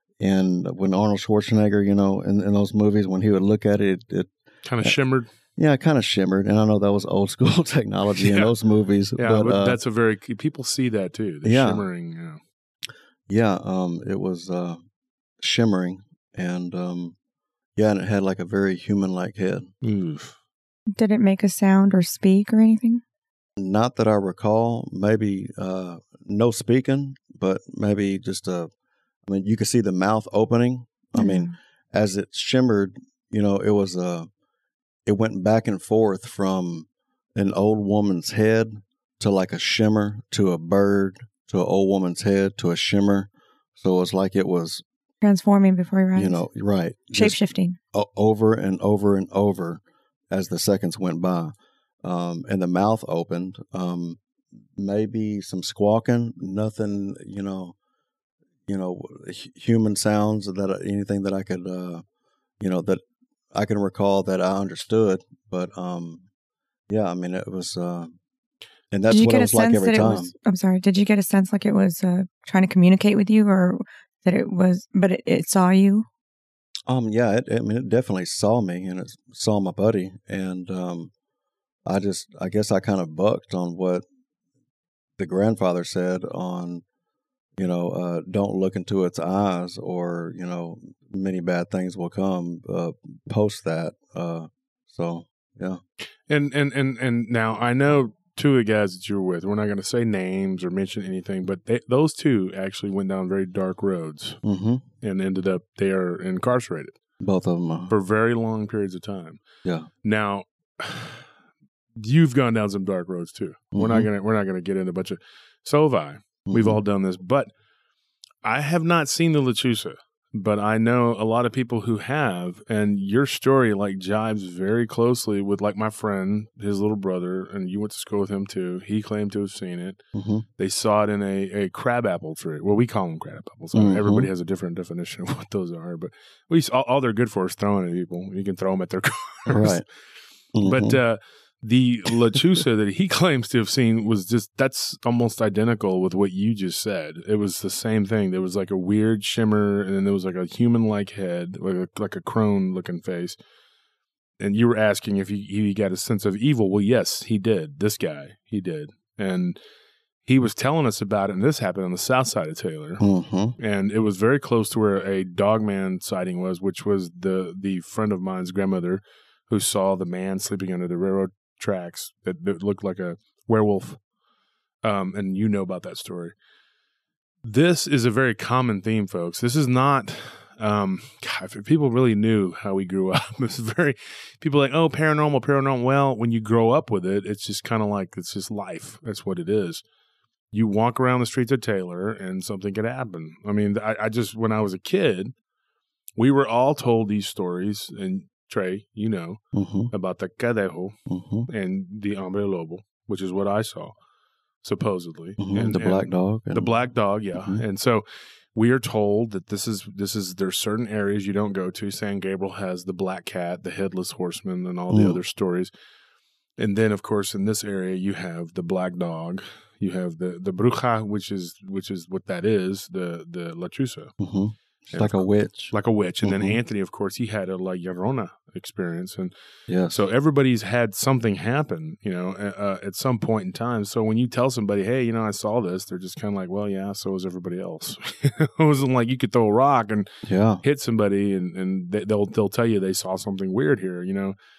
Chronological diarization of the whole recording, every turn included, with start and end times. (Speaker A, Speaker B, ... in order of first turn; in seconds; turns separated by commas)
Speaker A: 0.2-5.0, Speaker B: 4.7-5.3, Speaker A: 5.6-9.8, Speaker B: 8.2-8.5, Speaker B: 9.2-12.4, Speaker A: 11.4-11.9, Speaker A: 13.3-14.8, Speaker A: 15.4-17.1, Speaker A: 17.8-19.7, Speaker B: 19.8-20.4, Speaker C: 21.0-23.0, Speaker A: 23.6-28.7, Speaker A: 29.3-34.3, Speaker C: 31.2-31.5, Speaker A: 35.1-44.8, Speaker C: 45.2-46.4, Speaker A: 46.1-47.4, Speaker C: 47.1-47.8, Speaker A: 47.9-54.2, Speaker A: 54.8-57.8, Speaker A: 58.7-62.0, Speaker A: 62.6-63.0, Speaker A: 63.5-66.2, Speaker A: 66.9-68.1, Speaker A: 68.9-70.3, Speaker C: 69.1-76.1, Speaker A: 76.9-81.1, Speaker A: 81.9-84.0, Speaker A: 85.2-86.8, Speaker A: 87.6-95.8, Speaker B: 96.3-104.4, Speaker A: 104.4-104.8, Speaker B: 105.0-107.0, Speaker A: 107.2-107.9, Speaker B: 107.9-109.4, Speaker B: 110.0-111.3, Speaker B: 112.0-117.5, Speaker A: 113.7-114.1, Speaker A: 116.5-116.8, Speaker B: 118.4-130.0, Speaker A: 130.1-130.4, Speaker B: 130.6-139.8, Speaker A: 133.7-134.3, Speaker A: 139.5-139.9, Speaker A: 140.5-141.0, Speaker B: 140.6-153.4, Speaker B: 154.4-159.6, Speaker B: 160.2-163.0, Speaker A: 163.0-163.6, Speaker B: 163.6-174.0, Speaker B: 174.8-176.3, Speaker B: 177.4-189.8, Speaker B: 190.5-195.3, Speaker B: 196.2-199.4, Speaker A: 199.5-199.9, Speaker B: 199.9-201.0, Speaker A: 201.1-201.5, Speaker B: 201.5-203.9, Speaker B: 204.6-215.7, Speaker A: 205.4-206.8, Speaker A: 207.4-207.6, Speaker A: 214.9-215.2, Speaker B: 216.6-224.1, Speaker A: 224.2-226.6, Speaker B: 224.9-229.3, Speaker A: 229.7-230.0, Speaker B: 229.9-240.1, Speaker A: 240.2-240.6, Speaker B: 240.6-244.4